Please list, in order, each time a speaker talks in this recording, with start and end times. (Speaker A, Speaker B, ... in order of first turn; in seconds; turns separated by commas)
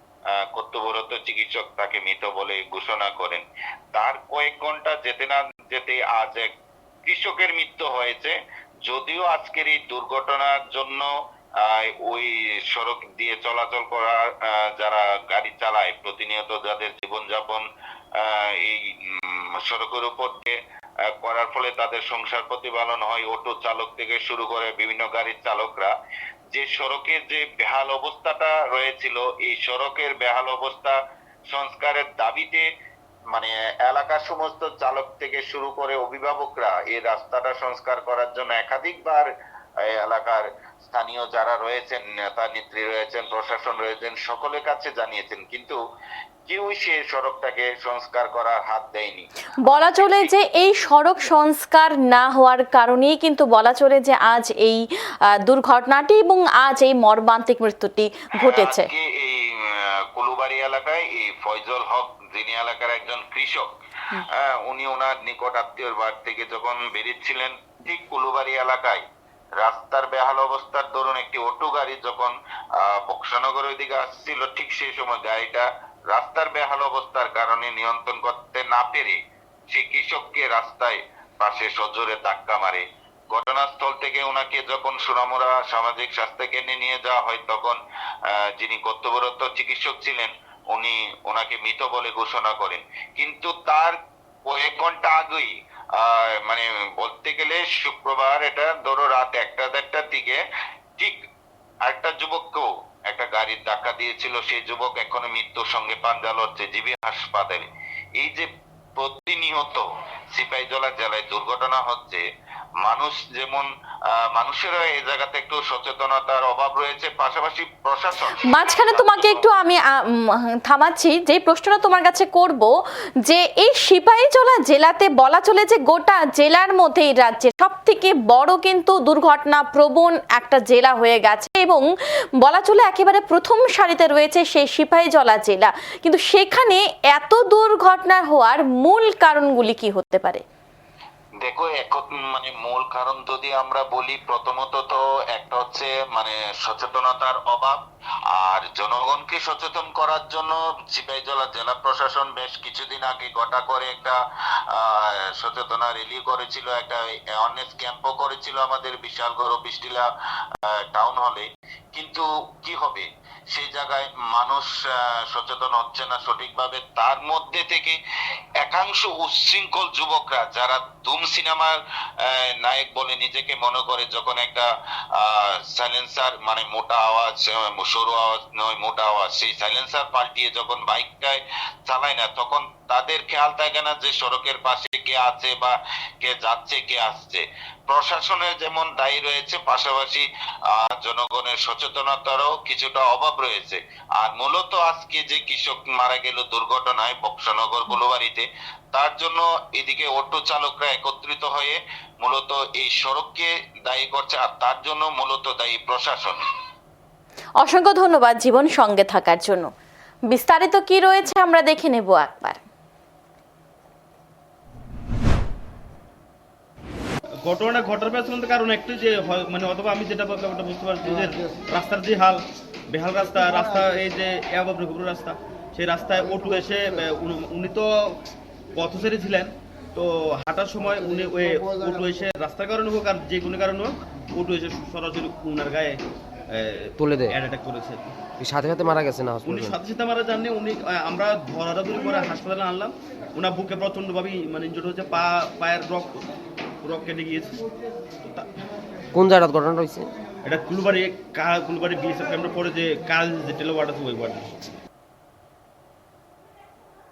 Speaker A: 0.4-6.5, Speaker A: 7.0-11.1, Speaker A: 11.6-20.6, Speaker A: 21.2-25.9, Speaker A: 26.5-31.0, Speaker A: 31.5-32.6, Speaker A: 33.3-39.2, Speaker A: 39.9-45.8, Speaker A: 46.5-50.3, Speaker B: 49.6-54.8, Speaker B: 55.4-58.9, Speaker A: 58.4-63.7, Speaker A: 64.3-69.0, Speaker A: 69.6-79.2, Speaker A: 79.7-100.4, Speaker A: 101.8-112.2, Speaker A: 112.8-113.7, Speaker A: 114.3-119.5, Speaker B: 118.4-122.7, Speaker B: 123.2-131.8, Speaker B: 132.4-140.4, Speaker A: 141.4-147.8, Speaker A: 148.3-154.2, Speaker A: 154.7-168.0, Speaker A: 168.6-206.4, Speaker B: 207.6-209.7, Speaker B: 210.3-212.6, Speaker C: 217.4-228.1, Speaker C: 228.8-236.0, Speaker C: 236.5-238.1, Speaker D: 237.0-237.3, Speaker D: 238.4-239.8, Speaker C: 239.4-246.2, Speaker C: 246.8-247.6, Speaker D: 249.1-250.1, Speaker C: 250.4-254.5